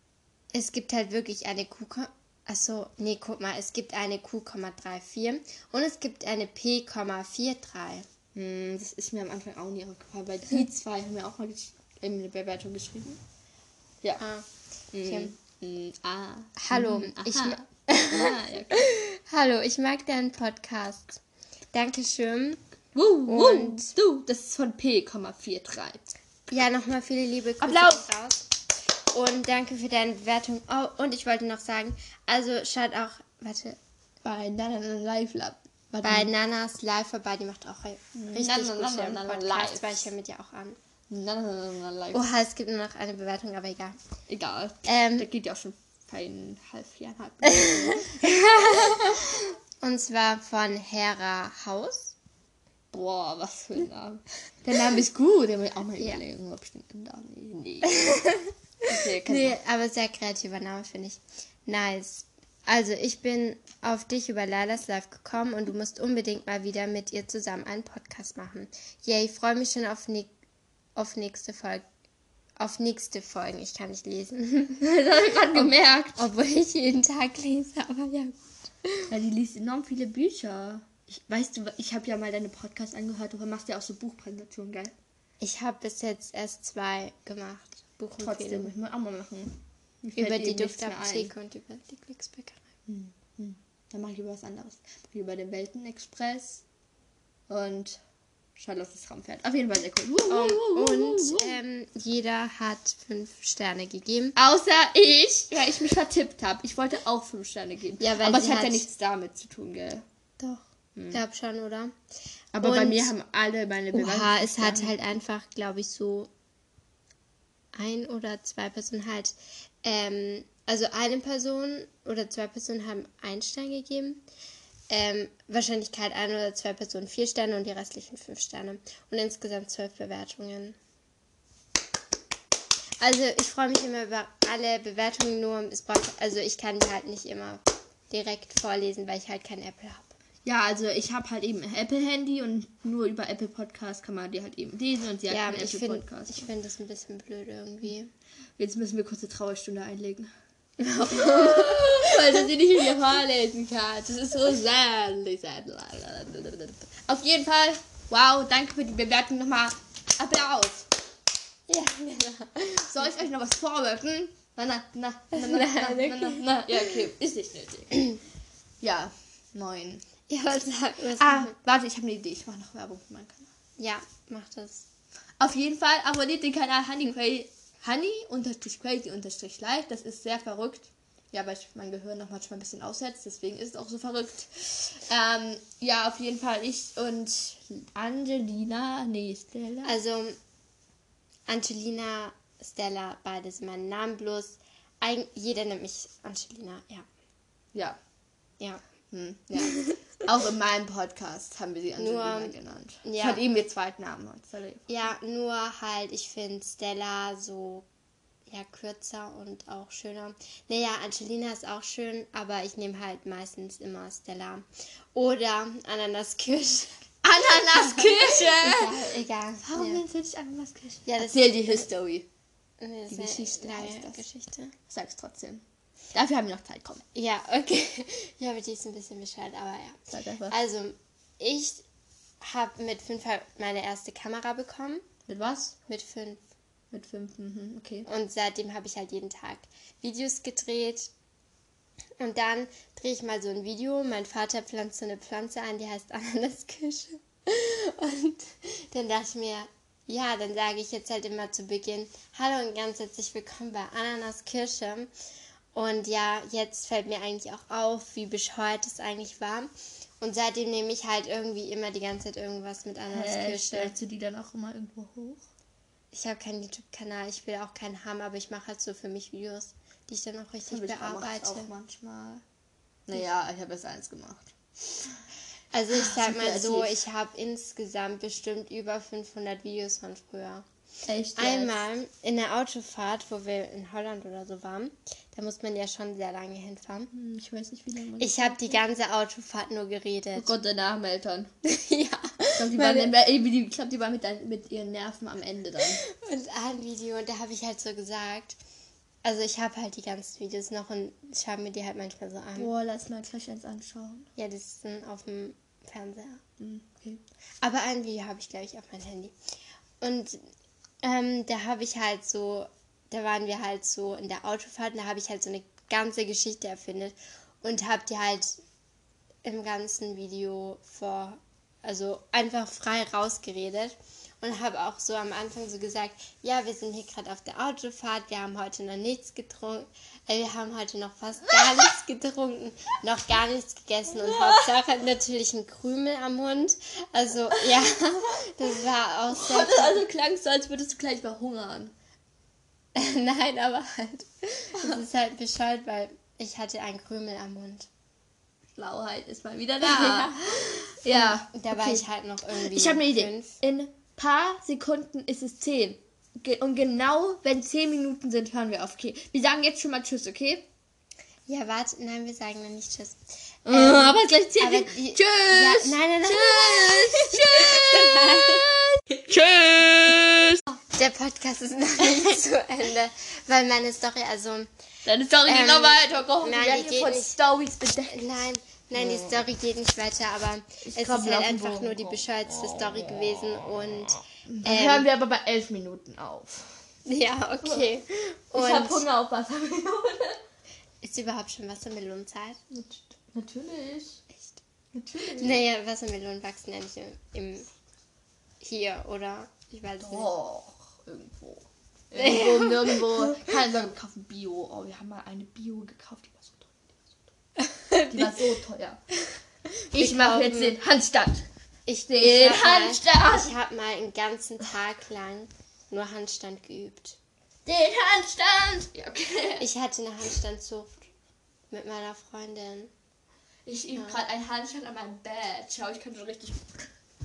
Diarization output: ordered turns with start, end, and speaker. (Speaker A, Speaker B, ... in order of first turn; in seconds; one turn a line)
Speaker A: 0.5-8.1
Speaker B: 8.3-13.2
Speaker A: 14.2-14.5
Speaker B: 14.9-18.9
Speaker A: 15.0-15.3
Speaker A: 16.6-21.2
Speaker A: 21.7-22.6
Speaker B: 22.9-26.1
Speaker A: 23.3-23.9
Speaker A: 26.5-28.5
Speaker B: 27.6-28.1
Speaker A: 29.1-33.8
Speaker B: 34.2-36.3
Speaker A: 36.0-40.8
Speaker B: 38.2-40.1
Speaker B: 41.1-42.3
Speaker A: 42.1-44.0
Speaker B: 44.3-48.9
Speaker A: 44.9-45.3
Speaker A: 47.5-52.1
Speaker B: 52.9-58.2
Speaker A: 57.9-58.5
Speaker B: 58.9-59.6
Speaker A: 59.2-70.3
Speaker A: 71.0-71.8
Speaker A: 72.6-74.9
Speaker B: 74.8-76.2
Speaker A: 75.5-79.1
Speaker B: 79.1-84.9
Speaker A: 85.4-88.7
Speaker B: 88.2-91.3
Speaker A: 90.2-92.6
Speaker B: 92.9-96.6
Speaker B: 97.5-98.0
Speaker B: 98.6-101.6
Speaker A: 100.3-104.4
Speaker B: 104.4-110.0
Speaker A: 108.0-108.9
Speaker A: 110.4-111.9
Speaker B: 112.5-115.0
Speaker A: 112.6-113.1
Speaker A: 113.9-116.3
Speaker A: 117.8-124.2
Speaker A: 124.9-130.8
Speaker A: 133.0-140.1
Speaker B: 140.4-146.4
Speaker A: 145.3-148.1
Speaker B: 148.6-150.3
Speaker A: 150.8-152.5
Speaker B: 151.1-160.9
Speaker A: 161.7-163.1
Speaker B: 162.9-168.1
Speaker A: 165.3-166.5
Speaker B: 168.8-170.0
Speaker A: 170.3-171.6
Speaker B: 171.2-173.5
Speaker A: 173.8-174.9
Speaker B: 175.4-189.9
Speaker A: 189.8-190.4
Speaker A: 191.5-197.1
Speaker B: 199.1-204.9
Speaker A: 199.6-199.9
Speaker A: 202.0-203.4
Speaker A: 204.9-207.8
Speaker A: 208.5-216.9
Speaker B: 217.2-219.1
Speaker A: 217.6-220.0
Speaker B: 219.6-222.3
Speaker A: 221.1-221.9
Speaker A: 222.8-224.8
Speaker B: 223.1-224.2
Speaker B: 224.9-225.6
Speaker B: 226.1-227.0
Speaker A: 227.2-231.8
Speaker B: 230.1-230.6
Speaker A: 232.4-235.1
Speaker B: 235.3-235.7
Speaker A: 235.8-236.4
Speaker B: 236.9-238.1
Speaker A: 238.1-241.1
Speaker A: 242.2-255.1
Speaker A: 255.7-263.9
Speaker B: 263.1-265.4
Speaker A: 266.1-271.7
Speaker B: 270.7-272.4
Speaker B: 273.1-275.2
Speaker A: 275.7-280.6
Speaker B: 275.9-277.0
Speaker B: 281.1-281.8
Speaker A: 281.4-287.1
Speaker B: 287.1-288.7
Speaker A: 288.2-290.5
Speaker B: 290.4-291.5
Speaker A: 291.6-293.1
Speaker B: 292.6-296.0
Speaker A: 296.0-298.6
Speaker A: 299.2-302.7
Speaker B: 302.6-304.3
Speaker A: 304.4-306.4
Speaker B: 306.6-307.2
Speaker A: 307.6-309.4
Speaker A: 310.0-310.4
Speaker A: 311.0-318.6
Speaker A: 319.4-340.0
Speaker B: 331.5-331.9
Speaker B: 334.1-334.8
Speaker B: 337.5-337.9
Speaker B: 339.3-341.9
Speaker A: 342.9-347.9
Speaker B: 348.8-360.7
Speaker A: 349.9-353.6
Speaker A: 361.5-368.6
Speaker B: 363.7-370.6
Speaker A: 370.9-374.7
Speaker B: 375.1-378.4
Speaker A: 375.5-377.4
Speaker A: 378.1-385.1
Speaker B: 379.0-379.4
Speaker B: 380.8-383.6
Speaker B: 384.5-386.8
Speaker A: 387.1-389.1
Speaker B: 387.6-387.9
Speaker B: 388.5-390.4
Speaker A: 391.0-392.6
Speaker B: 392.7-394.2
Speaker B: 394.9-395.6
Speaker A: 395.4-397.7
Speaker A: 398.6-400.3
Speaker B: 400.0-407.2
Speaker A: 407.9-408.3
Speaker B: 408.0-409.0
Speaker A: 409.9-410.8
Speaker B: 409.9-411.5
Speaker A: 411.9-417.2
Speaker B: 412.1-413.5
Speaker B: 417.7-419.7
Speaker A: 419.6-421.1
Speaker A: 421.7-422.9
Speaker B: 423.7-426.8
Speaker A: 424.0-424.2